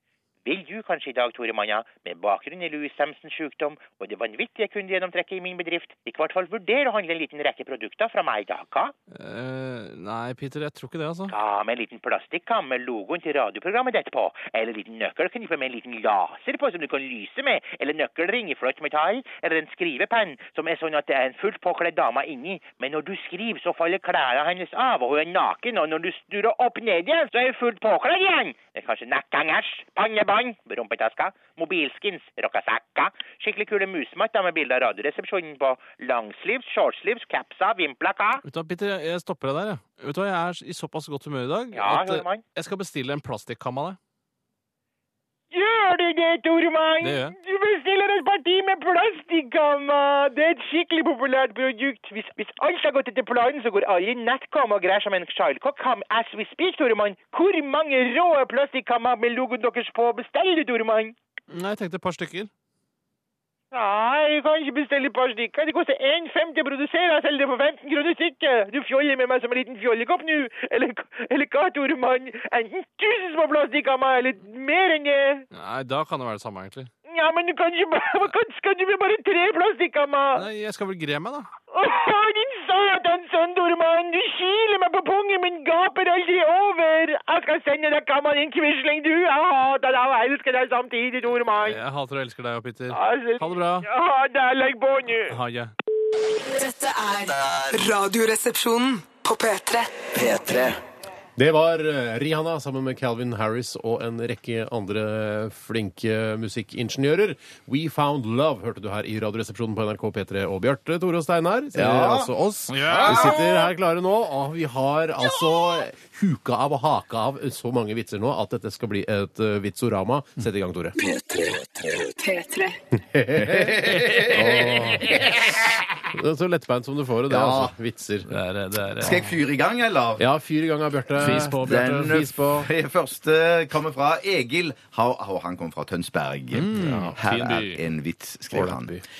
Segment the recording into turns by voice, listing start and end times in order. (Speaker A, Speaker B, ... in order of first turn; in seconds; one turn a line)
Speaker A: 0.4-8.9
Speaker B: 9.1-11.3
Speaker A: 11.3-38.4
Speaker B: 38.4-44.0
Speaker A: 41.7-42.4
Speaker A: 45.5-61.1
Speaker B: 47.0-47.4
Speaker B: 61.5-62.5
Speaker A: 63.7-75.4
Speaker B: 75.5-76.9
Speaker A: 77.1-80.5
Speaker B: 80.3-81.5
Speaker A: 81.7-91.8
Speaker B: 91.6-93.9
Speaker A: 92.9-95.4
Speaker B: 95.3-95.7
Speaker C: 96.2-100.8
Speaker D: 101.4-121.0
Speaker E: 111.7-112.3
Speaker B: 112.7-113.4
Speaker E: 113.0-113.4
Speaker C: 121.0-122.8
Speaker D: 123.0-128.3
Speaker E: 123.4-125.4
Speaker E: 127.3-127.7
Speaker B: 128.2-129.3
Speaker E: 129.0-130.2
Speaker D: 130.2-132.7
Speaker B: 131.2-132.2
Speaker E: 131.3-139.0
Speaker B: 136.5-137.8
Speaker D: 136.8-137.2
Speaker D: 138.5-139.0